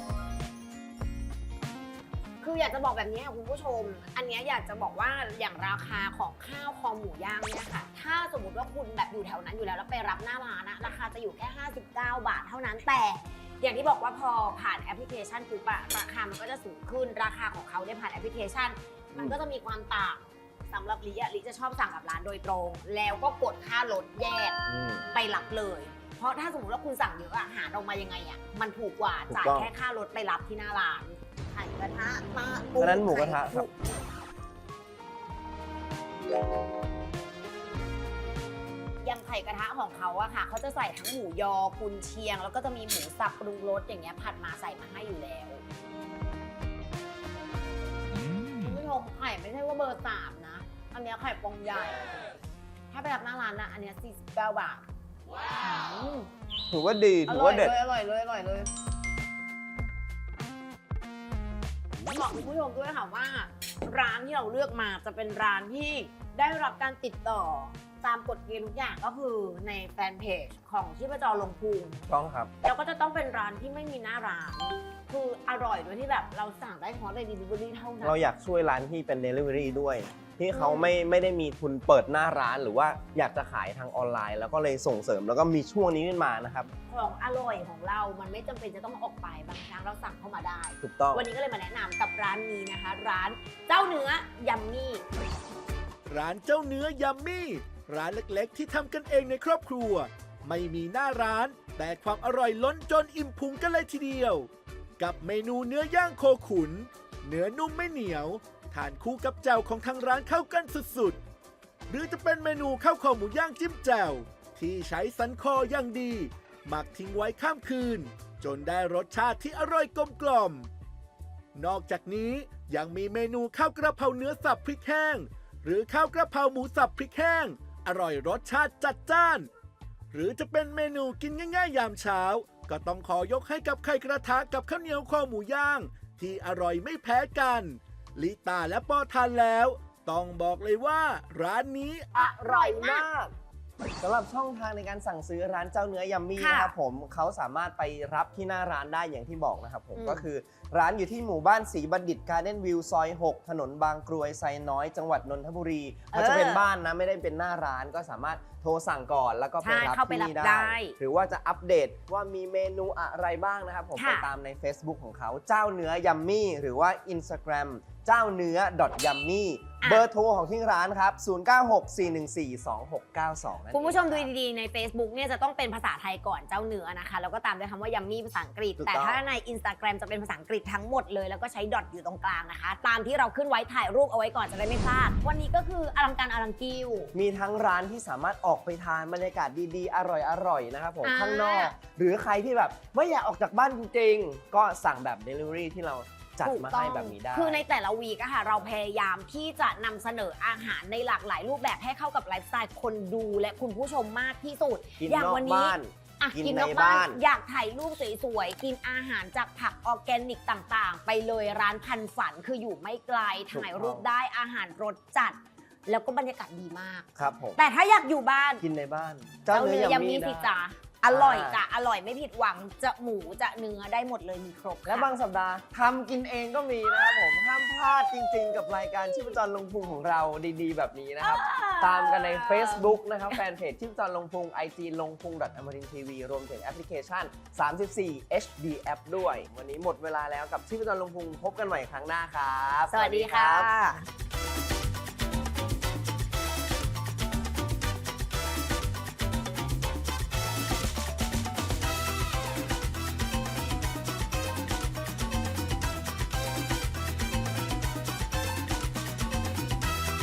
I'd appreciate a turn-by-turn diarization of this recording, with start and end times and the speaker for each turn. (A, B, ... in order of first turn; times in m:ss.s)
0:02.4-0:24.6 A
0:24.7-0:25.1 B
0:25.1-0:33.8 A
0:29.3-0:29.7 B
0:32.8-0:33.7 B
0:39.0-0:45.6 A
0:48.3-0:52.2 A
0:52.9-0:54.8 A
0:55.5-0:56.3 A
0:56.7-0:57.8 B
0:57.3-0:58.7 A
1:02.0-1:12.0 A
1:12.1-1:12.5 B
1:12.6-1:18.2 A
1:18.0-1:26.7 B
1:20.5-1:21.0 A
1:26.9-1:35.0 A
1:30.8-1:31.3 B
1:36.1-1:51.2 C
1:51.9-2:00.7 C
2:01.5-2:09.5 C
2:10.1-2:22.1 C
2:22.1-2:23.0 A
2:22.2-2:23.3 B
2:24.0-2:54.3 B
2:26.4-2:26.8 A
2:30.0-2:30.3 A
2:36.1-2:36.6 A
2:39.6-2:41.0 A
2:44.0-2:44.3 A
2:49.8-2:50.1 A
2:53.7-3:07.1 A
2:58.8-2:59.2 B
3:07.1-3:17.6 B
3:11.0-3:11.8 A
3:16.4-3:38.6 A
3:25.0-3:27.2 B
3:33.5-3:34.1 B
3:37.2-3:37.6 B
3:38.6-3:40.5 B
3:39.5-3:45.1 A
3:41.1-3:41.6 B
3:44.9-4:03.7 B
3:51.2-3:53.4 A
4:02.9-4:04.1 A